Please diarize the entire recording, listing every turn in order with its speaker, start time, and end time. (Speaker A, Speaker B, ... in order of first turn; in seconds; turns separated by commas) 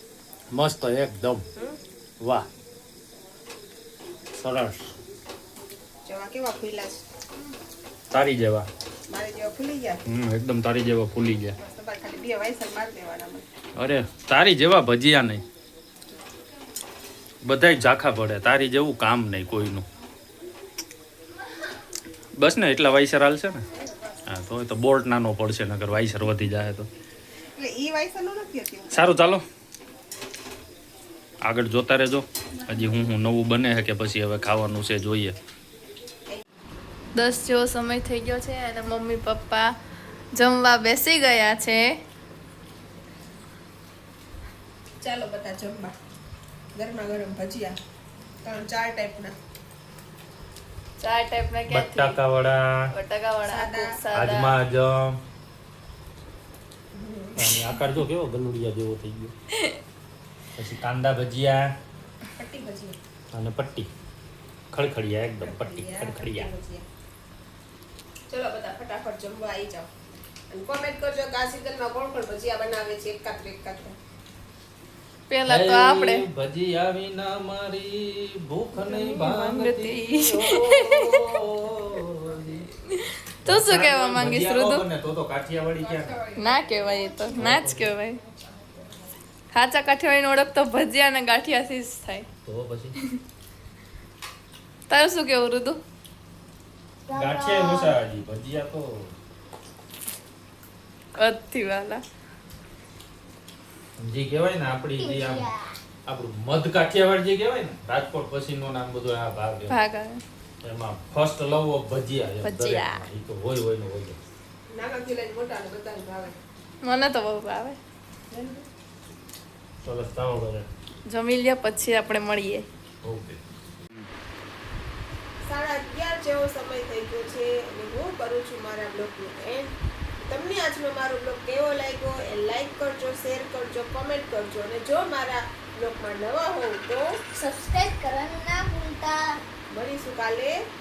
Speaker A: 0.5-1.4, Speaker A: 2.2-2.5, Speaker A: 4.3-4.9, Speaker B: 6.1-7.0, Speaker A: 8.1-8.7, Speaker B: 9.1-10.0, Speaker A: 10.1-11.6, Speaker B: 11.6-13.5, Speaker A: 13.8-15.4, Speaker A: 17.4-19.9, Speaker A: 22.4-23.6, Speaker B: 23.7-24.3, Speaker A: 24.3-26.9, Speaker B: 27.6-29.1, Speaker A: 28.9-29.4, Speaker A: 31.4-35.4, Speaker C: 37.2-39.7, Speaker C: 40.3-41.9, Speaker B: 45.0-46.0, Speaker B: 46.8-47.8, Speaker B: 48.4-49.3, Speaker C: 51.0-52.2, Speaker A: 51.7-52.9, Speaker C: 52.9-54.6, Speaker B: 53.5-54.0, Speaker A: 54.1-55.2, Speaker B: 56.9-57.5, Speaker A: 57.4-59.3, Speaker A: 60.6-61.7, Speaker B: 62.4-63.0, Speaker A: 63.3-63.9, Speaker A: 64.7-66.5, Speaker B: 65.4-66.9, Speaker B: 68.3-69.9, Speaker B: 70.5-74.0, Speaker C: 75.3-76.3, Speaker A: 75.4-82.7, Speaker C: 78.9-81.2, Speaker C: 82.9-84.8, Speaker A: 83.5-86.3, Speaker B: 85.9-87.5, Speaker C: 86.4-88.2, Speaker A: 87.3-88.0, Speaker C: 89.5-92.3, Speaker A: 92.5-93.0, Speaker C: 94.9-95.8, Speaker D: 97.1-98.0, Speaker A: 97.1-99.1, Speaker C: 101.2-102.0, Speaker A: 104.0-105.5, Speaker D: 105.0-105.7, Speaker A: 106.1-109.8, Speaker C: 109.7-110.2, Speaker A: 110.6-114.2, Speaker C: 112.4-113.0, Speaker B: 114.7-116.4, Speaker C: 116.8-117.8, Speaker B: 118.3-118.7, Speaker A: 119.8-120.7, Speaker C: 121.1-122.7, Speaker A: 123.0-123.4, Speaker B: 125.5-129.7, Speaker B: 130.2-137.2, Speaker D: 137.3-139.4, Speaker B: 139.7-140.6